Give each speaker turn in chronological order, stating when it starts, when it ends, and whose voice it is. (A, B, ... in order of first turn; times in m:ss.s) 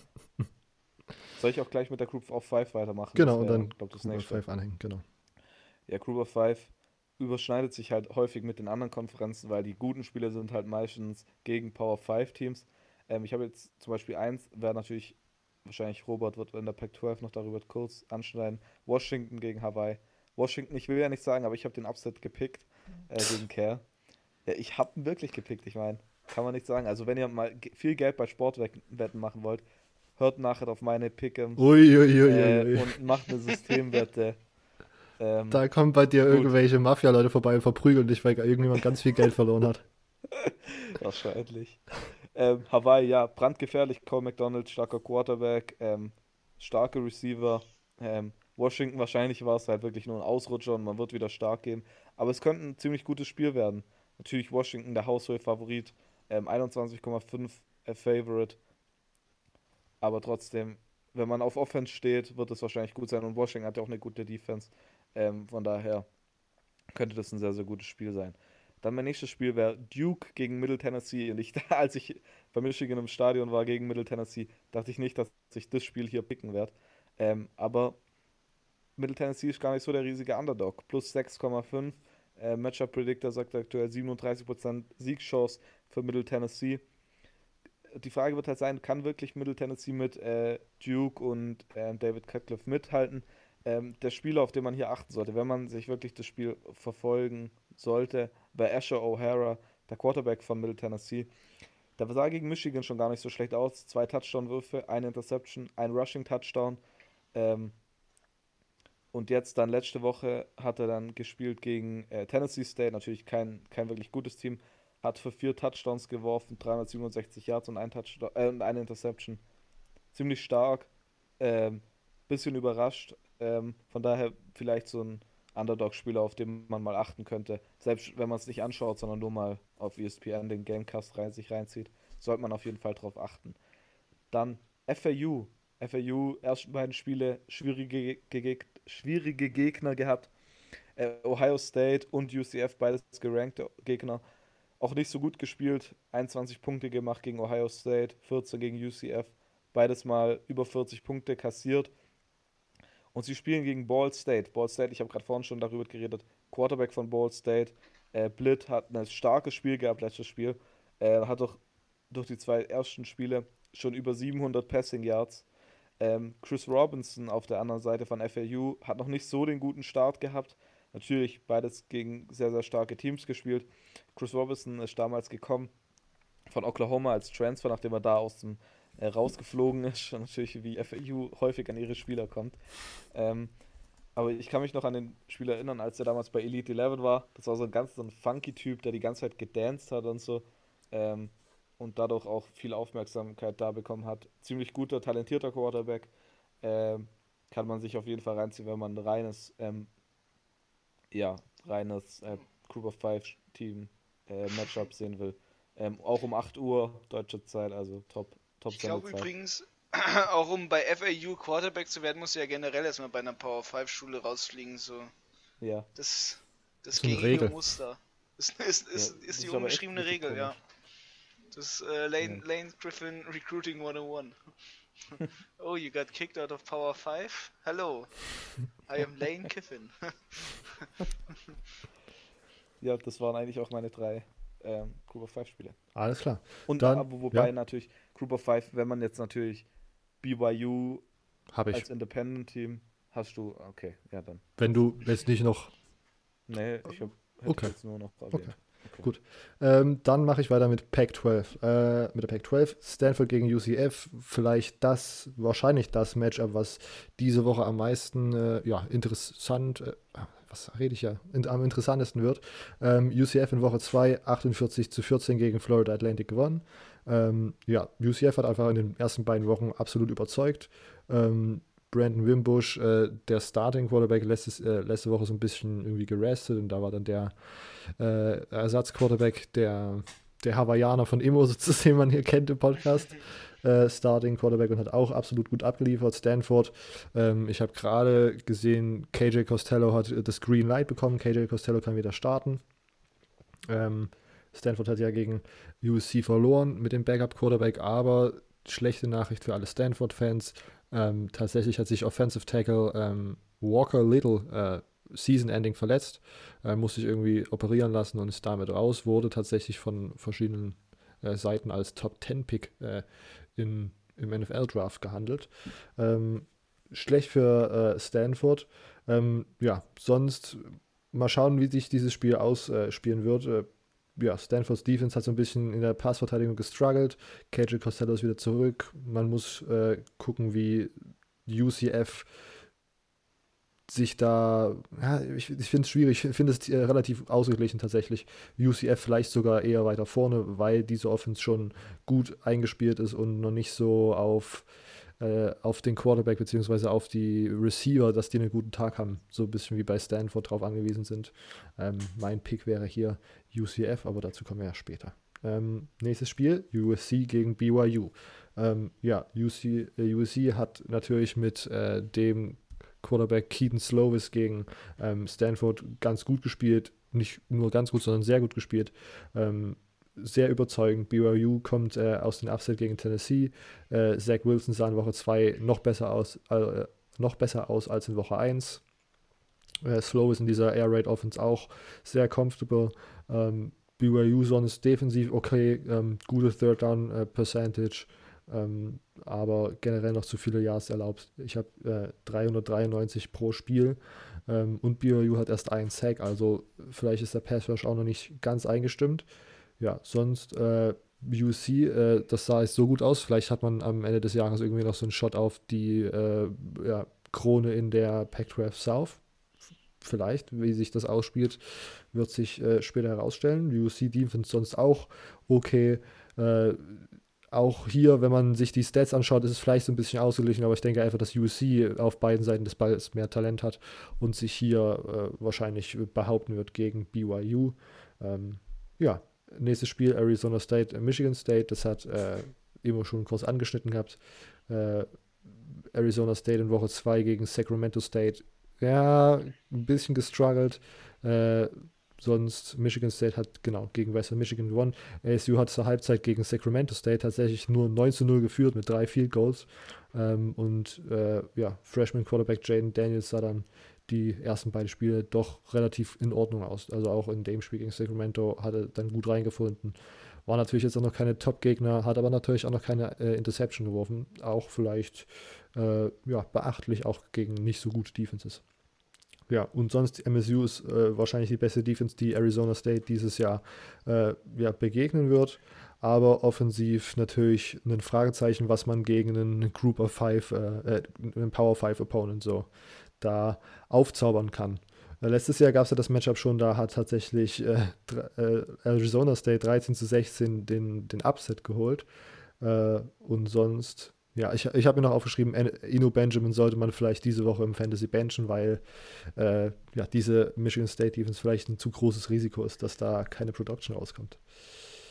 0:01.4-0:04.4 A
0:03.1-0:05.0 B
0:05.9-0:23.8 A
0:24.5-0:29.6 A
0:30.2-0:31.7 A
0:31.6-0:33.0 B
0:32.2-0:34.4 A
0:35.2-0:35.7 A
0:35.5-0:39.8 B
0:36.3-0:36.5 A
0:40.3-0:41.8 A
0:42.3-0:58.6 A
1:00.0-1:06.1 A
1:06.9-1:18.0 A
1:19.0-1:26.8 A
1:27.9-1:41.3 A
1:42.0-1:46.8 A
1:47.3-1:47.7 A
1:49.1-1:59.4 A
2:00.1-2:00.9 A
2:01.4-2:13.6 A
2:14.3-2:20.3 A
2:21.0-2:24.2 A
2:24.8-2:31.9 A
2:33.1-2:45.4 A
2:46.0-2:55.7 A
2:56.5-3:02.6 A
3:03.1-3:03.5 A
3:04.2-3:16.1 A
3:16.6-3:19.9 A
3:21.1-3:29.3 A
3:28.7-3:35.1 C
3:35.6-3:35.9 A
3:36.0-3:40.6 C
3:37.0-3:37.8 B
3:38.9-3:40.6 A
3:41.5-3:44.4 C
3:45.6-3:50.9 C
3:52.8-3:55.8 A
3:55.9-3:57.5 B
3:56.7-3:59.6 A
4:00.2-4:01.0 A
4:01.5-4:01.8 B
4:01.7-4:04.9 A
4:04.6-4:05.7 B
4:06.5-4:09.1 A
4:07.4-4:52.6 B
4:53.7-5:30.9 B
5:31.4-5:32.4 B
5:33.9-6:18.8 B
6:19.8-6:39.3 B
6:39.8-6:49.2 B
6:50.0-7:48.6 B
7:49.5-8:12.1 B
8:12.6-8:24.8 B